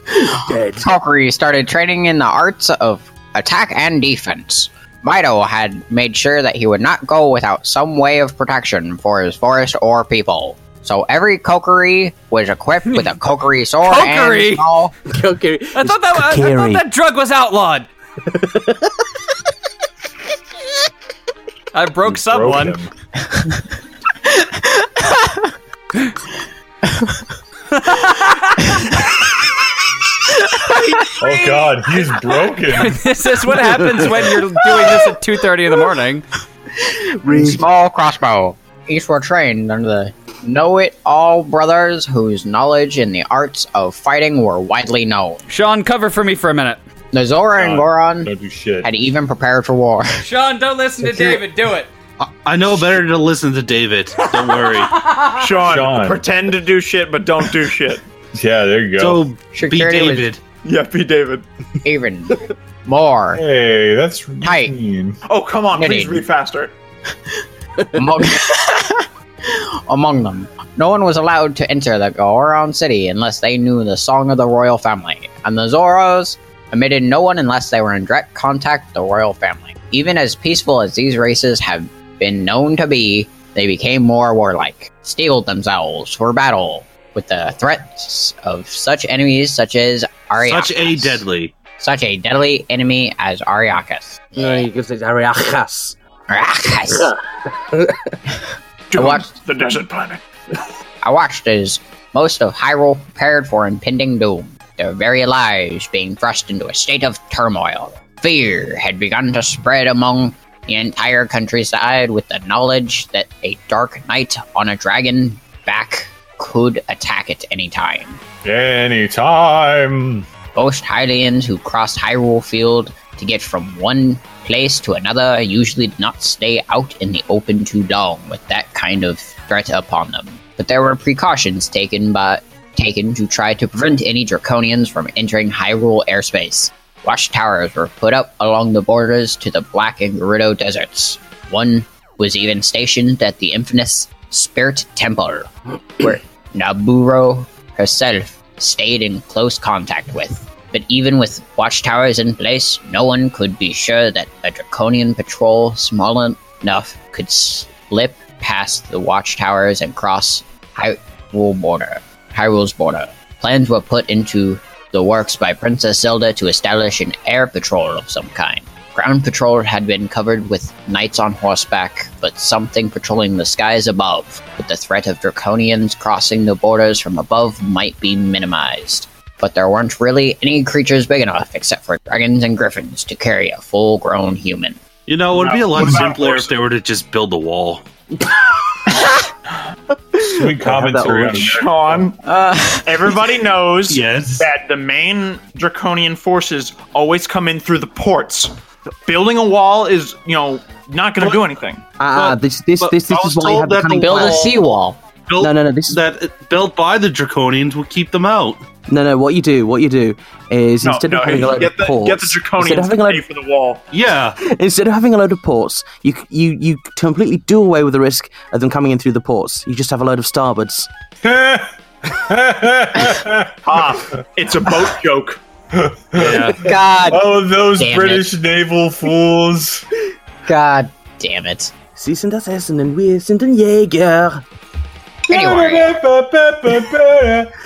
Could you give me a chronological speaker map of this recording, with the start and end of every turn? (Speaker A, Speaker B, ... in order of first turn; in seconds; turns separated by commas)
Speaker A: 0.2-0.9, Speaker B: 0.8-14.9, Speaker C: 13.8-14.7, Speaker A: 15.1-16.9, Speaker C: 15.8-17.9, Speaker A: 18.2-19.0, Speaker C: 21.7-22.8, Speaker D: 22.0-22.9, Speaker C: 27.7-28.9, Speaker C: 30.7-31.1, Speaker D: 31.2-33.0, Speaker C: 32.7-36.2, Speaker A: 37.2-37.6, Speaker B: 37.2-45.4, Speaker C: 45.5-46.8, Speaker B: 47.1-48.3, Speaker D: 47.5-48.9, Speaker B: 48.8-50.2, Speaker C: 50.2-51.9, Speaker E: 52.2-54.9, Speaker C: 54.2-55.4, Speaker F: 55.4-58.0, Speaker D: 55.6-56.2, Speaker D: 58.4-59.2, Speaker E: 59.0-60.4, Speaker B: 59.5-60.3, Speaker F: 60.6-61.4, Speaker B: 61.8-63.4, Speaker D: 63.3-65.2, Speaker B: 64.4-64.7, Speaker F: 65.3-66.7, Speaker B: 65.7-66.2, Speaker B: 67.9-91.2, Speaker E: 90.4-91.5, Speaker B: 91.8-94.6, Speaker A: 94.3-96.0, Speaker B: 96.3-97.1, Speaker A: 96.9-98.2, Speaker F: 98.9-100.2, Speaker B: 99.0-99.2, Speaker B: 101.0-118.2, Speaker D: 118.4-120.2, Speaker B: 120.5-184.8, Speaker E: 185.1-187.8, Speaker F: 185.3-186.5, Speaker D: 190.3-192.1, Speaker A: 190.3-191.5, Speaker F: 191.1-192.2, Speaker B: 192.2-192.8, Speaker F: 192.8-198.5, Speaker E: 193.9-194.5, Speaker F: 199.1-201.8, Speaker A: 202.0-204.6, Speaker E: 202.1-204.5, Speaker B: 203.9-205.0, Speaker E: 205.3-208.6, Speaker A: 205.4-206.0, Speaker A: 208.9-213.2, Speaker F: 210.8-213.8, Speaker E: 213.9-214.4, Speaker A: 214.4-220.9, Speaker D: 221.2-223.9, Speaker F: 223.6-225.4, Speaker D: 225.7-229.8, Speaker B: 226.4-228.3, Speaker B: 230.4-231.7, Speaker A: 231.9-234.4, Speaker B: 235.3-236.0, Speaker D: 235.3-237.5